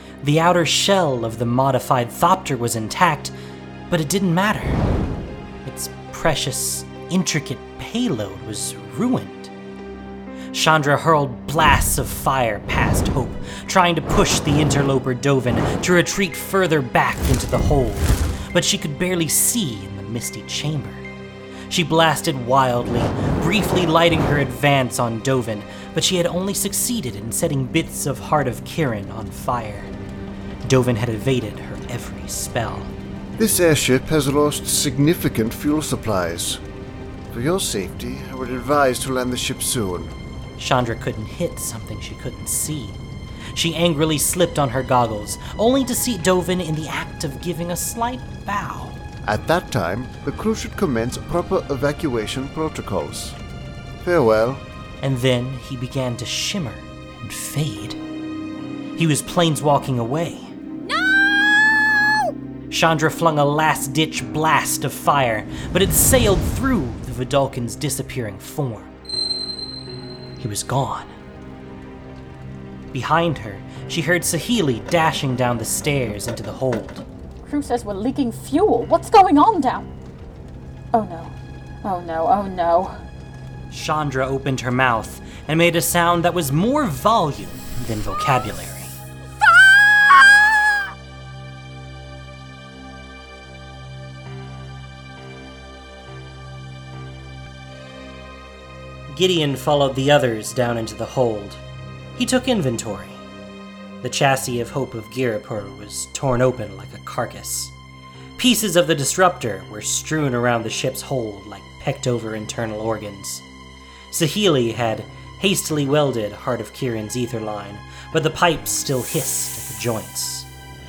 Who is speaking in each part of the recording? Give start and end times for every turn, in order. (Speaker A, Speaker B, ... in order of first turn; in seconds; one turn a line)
Speaker A: 0.2-3.3
Speaker A: 3.9-4.8
Speaker A: 5.7-9.5
Speaker A: 10.5-21.1
Speaker A: 21.7-30.0
Speaker A: 30.6-32.9
Speaker B: 33.4-36.6
Speaker B: 37.3-40.2
Speaker A: 40.6-43.0
Speaker A: 43.5-49.0
Speaker B: 49.2-53.4
Speaker B: 54.0-54.6
Speaker A: 55.0-58.0
Speaker A: 59.0-60.5
Speaker C: 60.8-62.3
Speaker A: 62.7-68.9
Speaker A: 70.4-71.1
Speaker A: 72.9-77.0
Speaker D: 77.5-79.9
Speaker D: 80.9-83.0
Speaker A: 83.7-88.9
Speaker C: 89.9-90.3
Speaker A: 99.1-101.6
Speaker A: 102.2-103.2
Speaker A: 104.0-107.7
Speaker A: 108.4-113.5
Speaker A: 114.1-120.5